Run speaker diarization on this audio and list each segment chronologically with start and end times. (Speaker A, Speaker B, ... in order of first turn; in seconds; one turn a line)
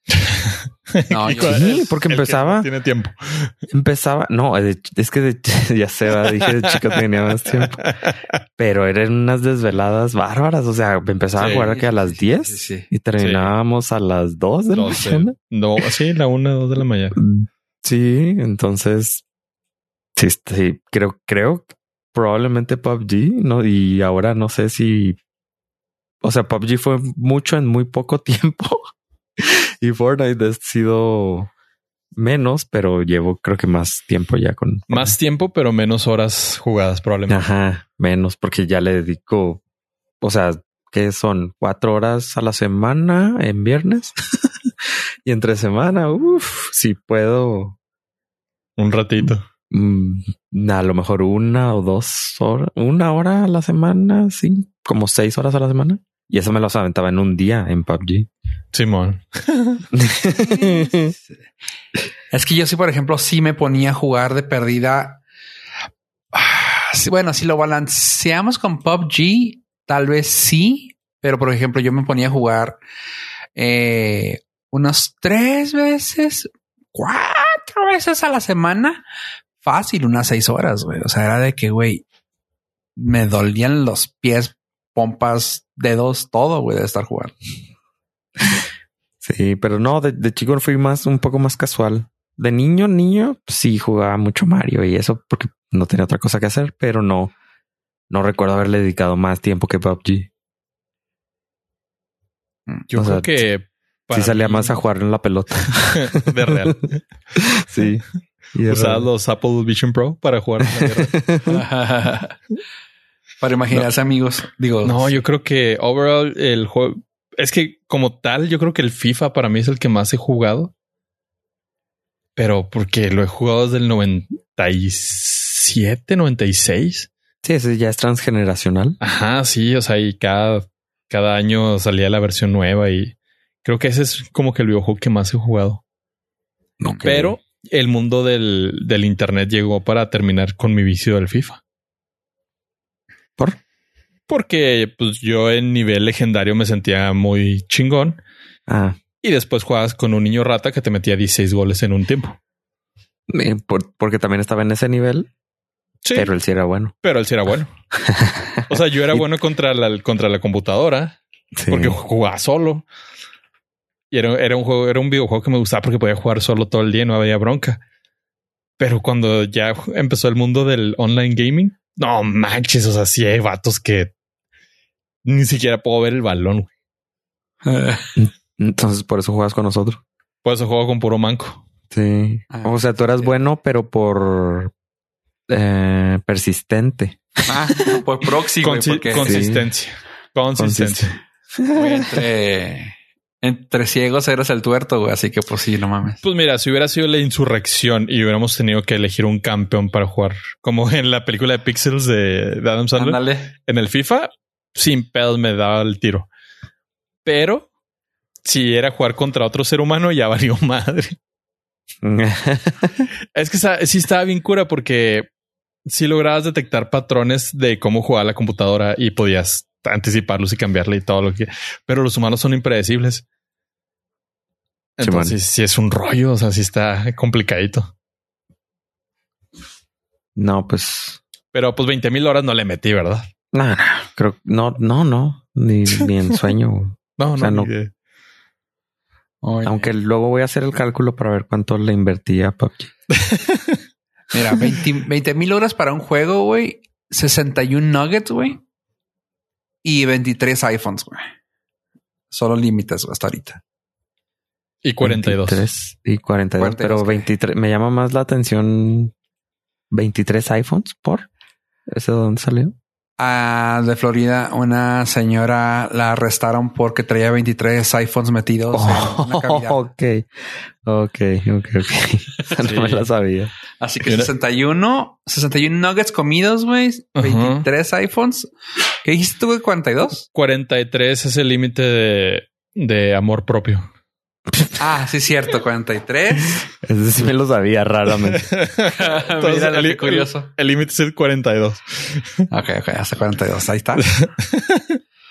Speaker A: 0.1-3.5
Speaker B: 1.1-1.9
Speaker C: 1.3-2.7
Speaker C: 3.7-7.8
Speaker A: 6.5-7.0
Speaker A: 7.5-8.3
Speaker C: 8.6-15.3
Speaker B: 11.4-12.9
Speaker A: 11.4-11.7
Speaker A: 13.2-13.5
Speaker A: 14.7-17.2
Speaker C: 17.1-19.2
Speaker C: 20.1-25.2
Speaker C: 26.2-28.9
Speaker C: 29.4-31.5
Speaker C: 32.1-35.1
Speaker A: 34.9-37.5
Speaker C: 37.3-39.6
Speaker C: 40.2-44.7
Speaker C: 45.2-47.8
Speaker A: 48.8-49.4
Speaker C: 49.2-58.3
Speaker A: 58.7-59.8
Speaker C: 59.9-61.1
Speaker B: 60.3-61.2
Speaker B: 62.3-65.2
Speaker B: 66.3-72.8
Speaker B: 73.5-79.0
Speaker B: 79.6-82.0
Speaker B: 83.0-87.3
Speaker C: 89.2-97.3
Speaker C: 98.1-100.3
Speaker A: 102.9-104.8
Speaker C: 102.9-103.4
Speaker C: 104.1-106.7
Speaker A: 105.9-107.0
Speaker C: 107.3-109.1
Speaker A: 108.7-111.2
Speaker C: 110.7-111.6
Speaker B: 111.5-112.3
Speaker B: 113.4-115.1
Speaker A: 114.8-120.7
Speaker A: 122.3-127.1
Speaker C: 127.4-129.0
Speaker A: 129.0-135.8
Speaker C: 136.8-137.4
Speaker A: 137.0-141.6
Speaker A: 144.3-148.2
Speaker C: 148.7-149.0
Speaker A: 149.2-152.4
Speaker C: 153.3-155.3
Speaker A: 156.0-156.3
Speaker C: 156.1-156.9
Speaker A: 157.0-157.7
Speaker C: 157.9-159.2
Speaker A: 158.7-161.2
Speaker C: 161.6-162.0
Speaker A: 161.7-162.8
Speaker A: 164.1-167.8
Speaker A: 168.8-174.1
Speaker A: 175.2-176.7
Speaker B: 177.6-178.1
Speaker C: 178.2-180.0
Speaker A: 180.4-181.6
Speaker C: 181.9-184.7
Speaker B: 182.5-183.3
Speaker C: 185.5-187.9
Speaker B: 187.5-189.4
Speaker A: 188.6-191.1
Speaker C: 189.1-189.7
Speaker C: 190.6-192.2
Speaker B: 191.7-196.2
Speaker A: 196.2-206.3
Speaker B: 203.0-203.5
Speaker A: 207.2-207.7
Speaker A: 208.4-211.2
Speaker C: 212.0-213.1
Speaker A: 213.3-215.3
Speaker A: 215.8-223.2
Speaker A: 225.0-227.9
Speaker C: 225.0-225.3
Speaker C: 230.3-231.2
Speaker A: 231.5-233.3
Speaker C: 233.5-237.7
Speaker A: 235.9-236.3
Speaker A: 237.2-237.9
Speaker B: 239.4-239.9
Speaker C: 239.6-242.9
Speaker A: 243.1-243.8
Speaker B: 244.3-248.6
Speaker B: 249.8-251.2
Speaker B: 252.3-253.6
Speaker A: 254.8-255.6
Speaker C: 255.0-259.1
Speaker B: 256.6-257.3
Speaker C: 259.9-261.3
Speaker C: 261.9-262.7
Speaker B: 263.2-269.8
Speaker C: 268.7-270.3
Speaker C: 270.8-273.5
Speaker A: 272.6-273.1
Speaker B: 273.8-278.5
Speaker A: 274.0-274.3
Speaker A: 277.2-277.6
Speaker B: 279.0-280.2
Speaker A: 280.3-283.9
Speaker B: 284.8-286.6
Speaker C: 286.8-288.4
Speaker A: 288.4-292.4
Speaker B: 288.9-290.5
Speaker B: 292.5-294.0
Speaker A: 294.0-295.0